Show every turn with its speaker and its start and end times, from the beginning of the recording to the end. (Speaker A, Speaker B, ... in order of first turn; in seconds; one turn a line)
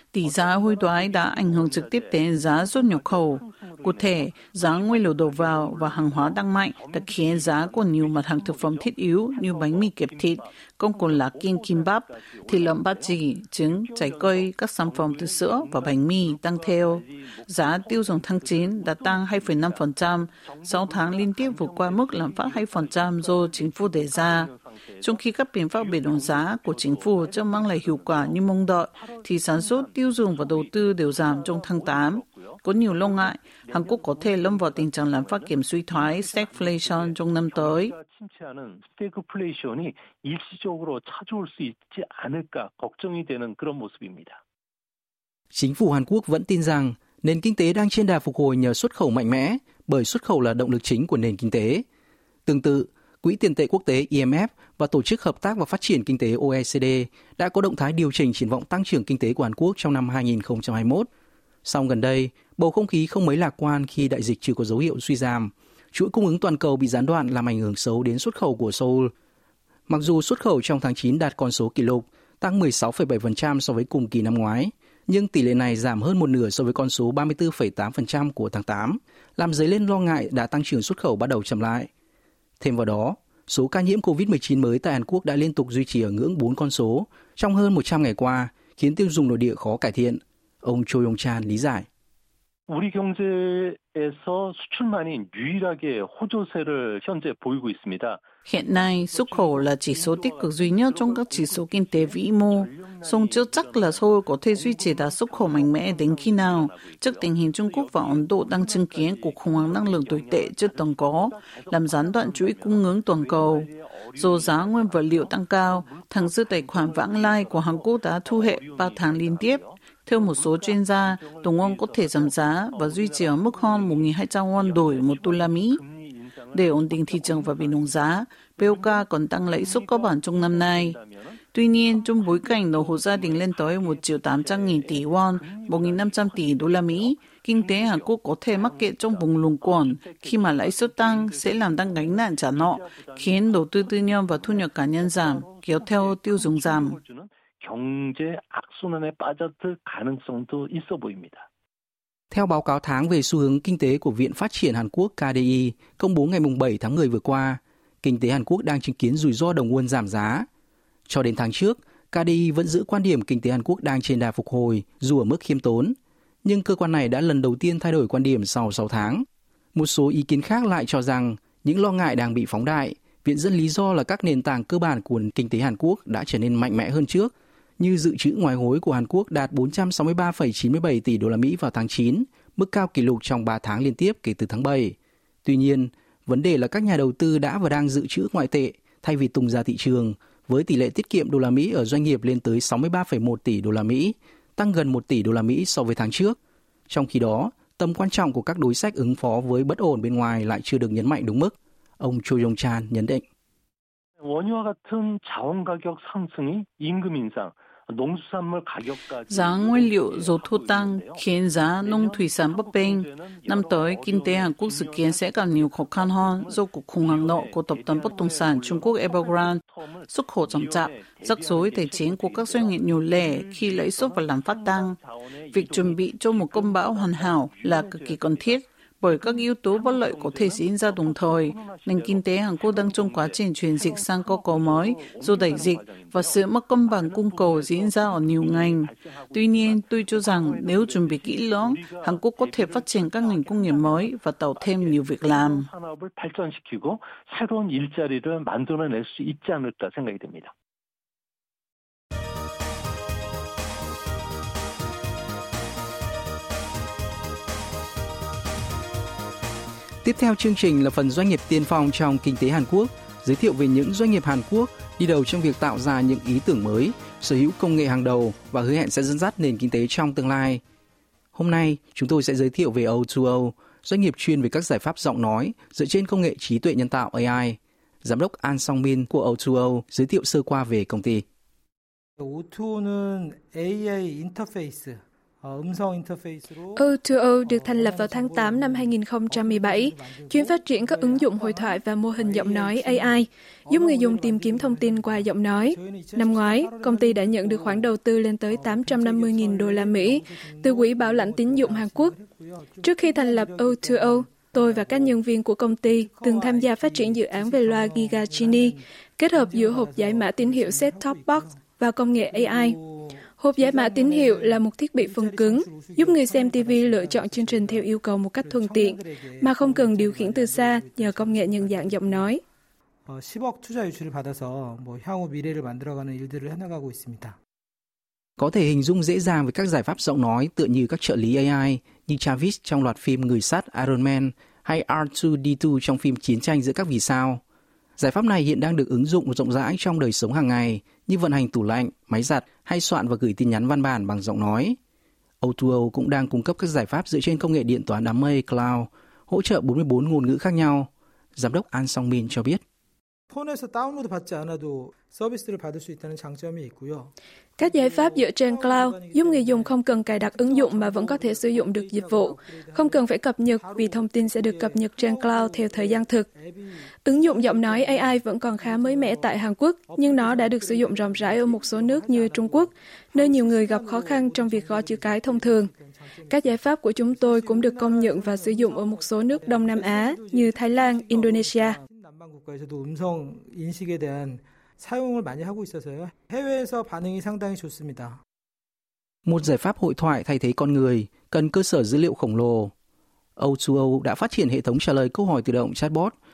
Speaker A: 0.1-24.5
Speaker B: 0.2-13.2
Speaker B: 13.7-28.4
Speaker A: 25.0-37.9
Speaker B: 28.9-44.4
Speaker C: 45.5-51.8
Speaker C: 52.5-61.1
Speaker C: 61.6-69.1
Speaker C: 69.9-81.9
Speaker C: 82.6-91.9
Speaker B: 92.7-98.2
Speaker A: 98.5-125.8
Speaker B: 98.9-128.1
Speaker A: 126.5-131.0
Speaker B: 128.6-131.4
Speaker A: 131.5-147.0
Speaker B: 131.9-151.4
Speaker C: 152.3-160.5
Speaker C: 161.1-196.4
Speaker C: 196.9-203.2
Speaker B: 204.2-250.5
Speaker A: 209.3-224.9
Speaker A: 225.5-245.7
Speaker C: 260.0-270.6
Speaker C: 271.3-281.2
Speaker D: 282.2-297.9
Speaker E: 286.8-302.2
Speaker D: 298.5-305.2
Speaker E: 302.8-312.8
Speaker D: 305.9-322.3
Speaker E: 313.3-322.4
Speaker D: 323.1-327.4
Speaker C: 328.4-337.4
Speaker C: 338.0-344.8
Speaker C: 345.4-352.6
Speaker D: 353.3-388.2
Speaker E: 357.6-366.3
Speaker E: 367.0-375.7
Speaker E: 376.3-381.8
Speaker C: 389.2-392.7
Speaker C: 393.4-396.1